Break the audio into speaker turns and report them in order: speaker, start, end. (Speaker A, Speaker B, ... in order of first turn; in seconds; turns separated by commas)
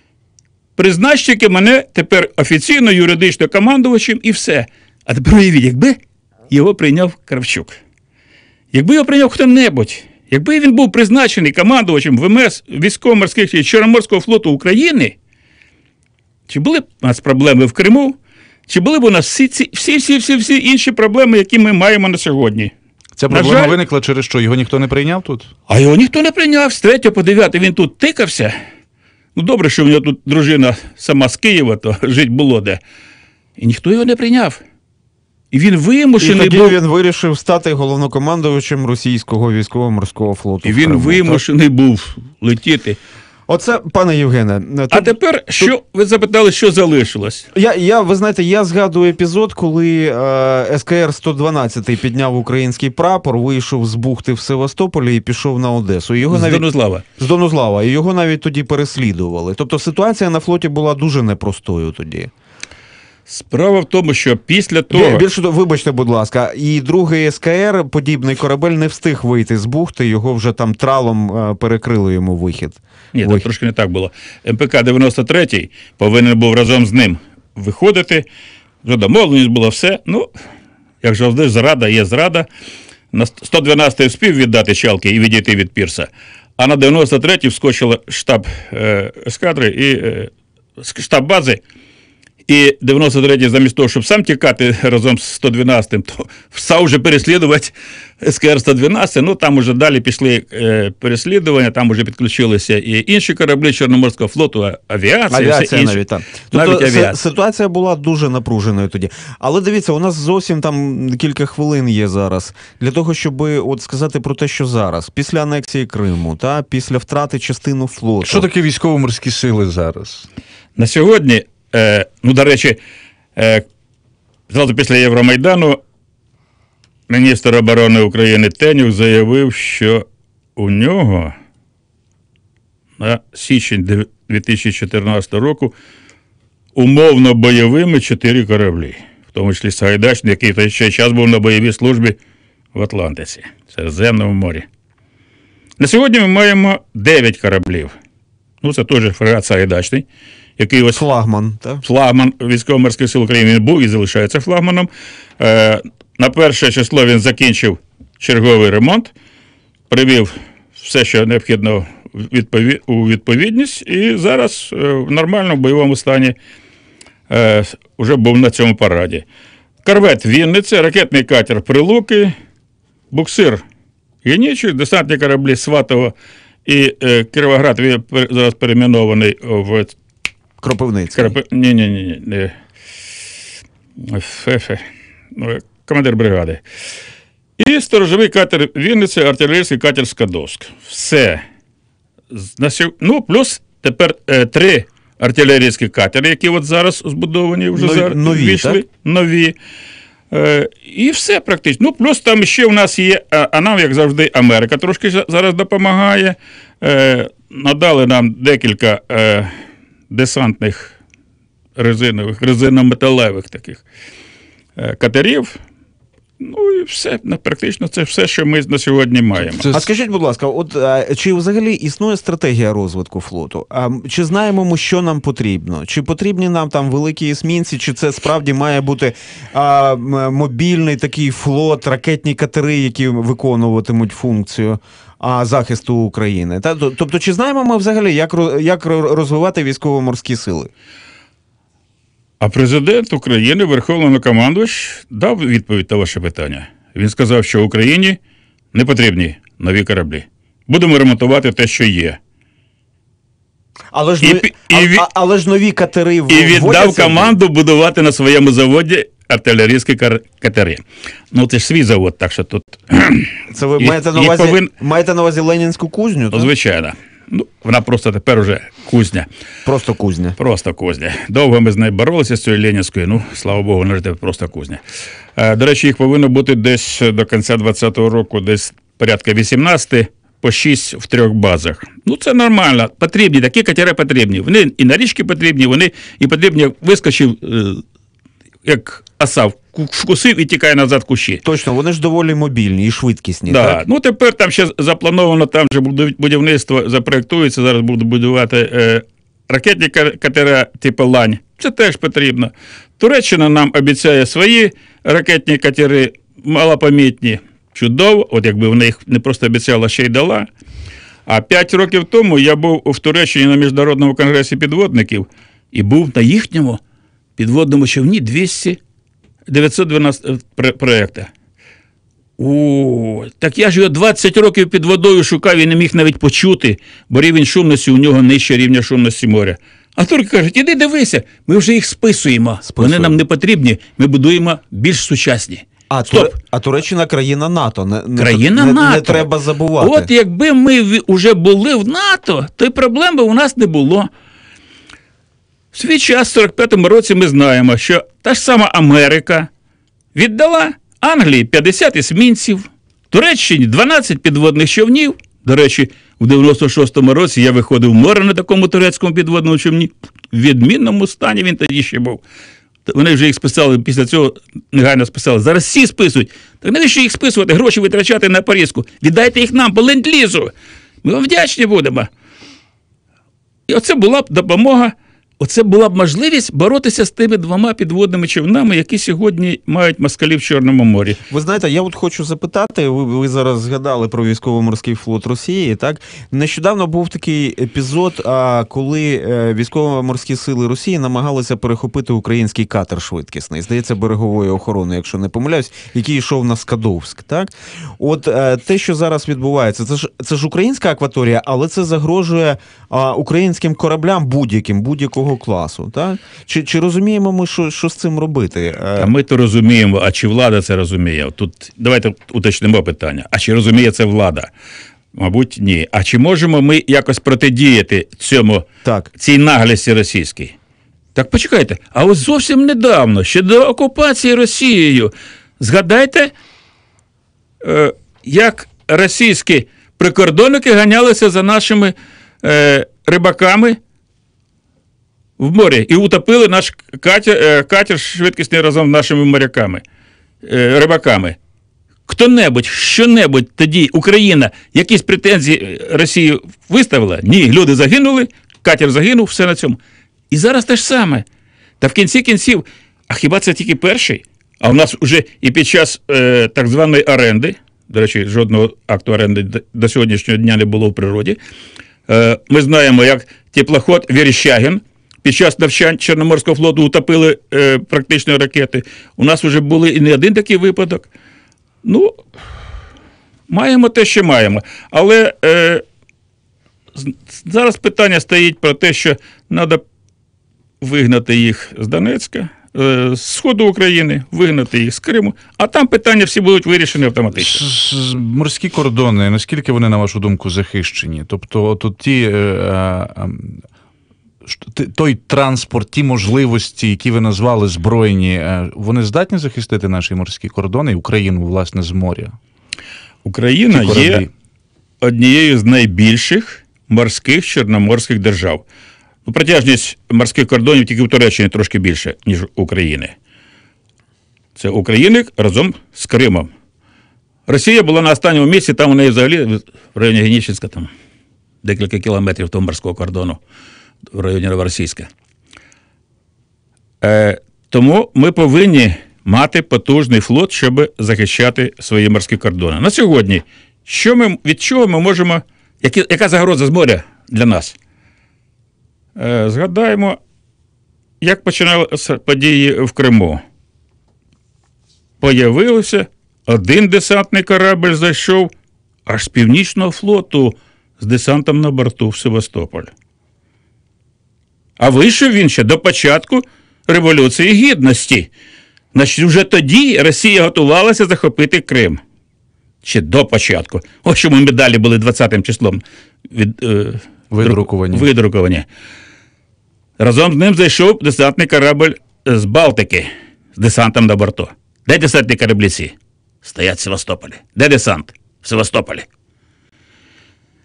Speaker A: 0.8-6.0, Speaker A: 6.5-7.8, Speaker A: 8.7-15.1, Speaker A: 16.5-18.2, Speaker A: 18.7-22.7, Speaker B: 23.2-25.5, Speaker A: 23.3-23.8, Speaker A: 25.7-28.6, Speaker A: 29.3-32.8, Speaker A: 33.6-34.6, Speaker A: 35.5-36.8, Speaker C: 36.2-41.4, Speaker A: 40.6-43.0, Speaker C: 43.5-45.7, Speaker A: 44.9-47.5, Speaker C: 47.5-56.6, Speaker A: 56.3-57.0, Speaker C: 57.2-62.3, Speaker A: 63.3-65.2, Speaker C: 64.9-73.5, Speaker A: 73.1-78.2, Speaker A: 78.8-80.3, Speaker A: 81.0-82.5, Speaker A: 83.1-91.6, Speaker A: 92.5-107.2, Speaker C: 105.3-118.5, Speaker B: 118.2-120.3, Speaker A: 120.8-122.8, Speaker A: 123.3-123.6, Speaker A: 124.5-125.8, Speaker A: 127.1-130.0, Speaker A: 130.6-131.3, Speaker A: 133.0-135.7, Speaker A: 136.7-142.2, Speaker A: 142.7-144.6, Speaker A: 145.8-147.9, Speaker A: 148.6-150.0, Speaker A: 150.6-151.0, Speaker C: 150.9-151.8, Speaker A: 151.8-159.1, Speaker A: 159.9-166.3, Speaker A: 167.3-169.2, Speaker A: 169.8-172.3, Speaker A: 173.1-173.6, Speaker A: 174.2-176.1, Speaker A: 176.7-179.9, Speaker C: 180.6-181.3, Speaker A: 181.1-182.5, Speaker A: 184.0-184.8, Speaker A: 185.3-186.6, Speaker A: 187.6-191.4, Speaker A: 192.3-199.5, Speaker C: 197.7-198.8, Speaker A: 200.3-209.5, Speaker A: 210.1-210.9, Speaker A: 211.8-213.8, Speaker A: 214.8-215.6, Speaker A: 216.4-219.7, Speaker B: 219.5-219.9, Speaker C: 219.7-240.7, Speaker A: 242.4-248.2, Speaker A: 248.7-252.2, Speaker C: 253.9-257.3, Speaker A: 254.2-255.0, Speaker A: 256.3-264.7, Speaker C: 263.5-266.5, Speaker A: 266.3-269.3, Speaker C: 269.6-270.4, Speaker A: 270.4-274.8, Speaker A: 275.4-287.8, Speaker A: 288.6-291.4, Speaker C: 291.4-293.8, Speaker A: 293.4-310.5, Speaker A: 311.3-316.8, Speaker A: 317.4-318.8, Speaker A: 319.5-321.3, Speaker A: 322.4-336.3, Speaker C: 332.6-333.2, Speaker C: 335.9-340.1, Speaker A: 338.2-344.1, Speaker A: 345.7-349.5, Speaker A: 350.1-362.2, Speaker A: 362.9-370.5, Speaker A: 371.0-372.1, Speaker A: 373.7-381.2, Speaker C: 381.3-409.1, Speaker A: 409.0-414.5, Speaker A: 415.1-418.6, Speaker C: 418.8-419.1, Speaker A: 419.2-420.5, Speaker A: 421.1-426.3, Speaker A: 427.6-433.8, Speaker A: 435.4-439.8, Speaker A: 440.4-441.4, Speaker A: 442.1-449.8, Speaker A: 450.3-451.2, Speaker A: 451.8-461.4, Speaker A: 462.1-471.1, Speaker A: 471.8-472.1, Speaker A: 473.5-475.8, Speaker A: 476.9-479.8, Speaker A: 480.8-487.6, Speaker B: 487.3-493.6, Speaker B: 494.4-502.4, Speaker A: 503.2-504.2, Speaker B: 503.7-504.3, Speaker A: 505.0-508.6, Speaker A: 509.2-513.1, Speaker A: 514.5-516.5, Speaker A: 517.5-520.9, Speaker A: 521.6-523.4, Speaker A: 524.1-525.1, Speaker A: 527.0-537.8, Speaker A: 539.1-540.2, Speaker A: 541.2-543.4, Speaker A: 545.2-548.5, Speaker A: 549.1-552.9, Speaker A: 554.8-558.3, Speaker A: 558.9-562.0, Speaker A: 562.8-568.6, Speaker B: 567.3-568.0, Speaker A: 570.0-579.0